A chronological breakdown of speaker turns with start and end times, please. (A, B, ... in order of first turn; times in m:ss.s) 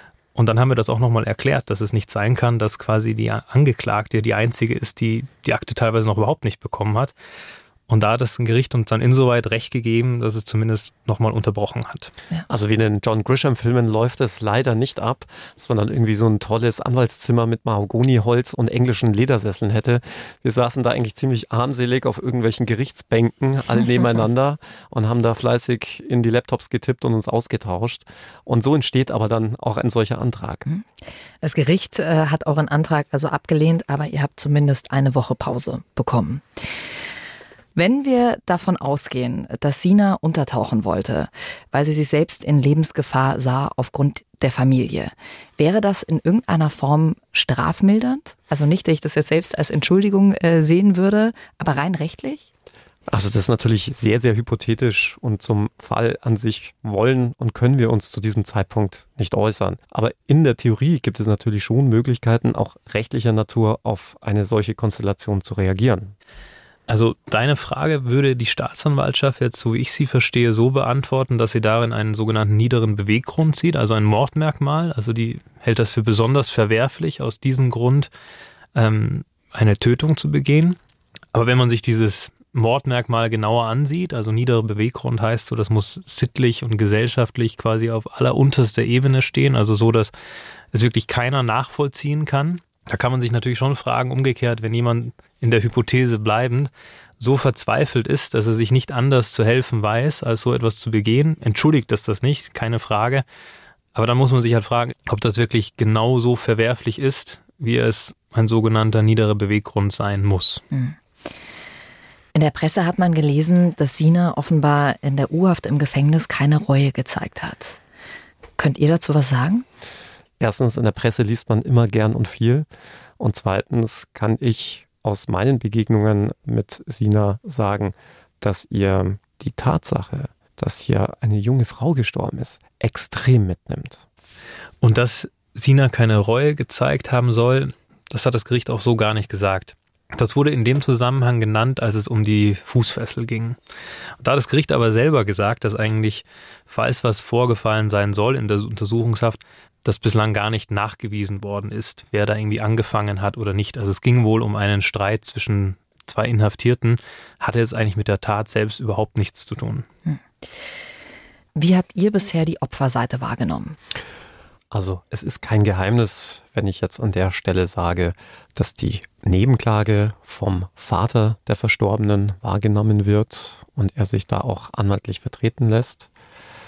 0:00.4-0:07.1 A
0:07.9-0:12.1 A
0:12.5-0:30.7 B
0:31.4-0:36.8 C
0:37.8-0:52.5 C
0:53.1-1:06.2 B
1:06.9-1:18.1 A
1:18.8-1:20.8 A
1:21.3-1:30.1 A
1:30.7-1:43.2 A
1:43.9-1:50.6 A
1:50.7-1:51.0 C
1:52.4-1:57.8 C
1:58.6-1:59.7 C
2:00.4-2:02.7 B
2:03.2-2:14.0 B
2:14.8-2:23.6 A
2:24.2-2:39.9 A
2:41.6-2:43.8 C
2:44.7-2:56.1 B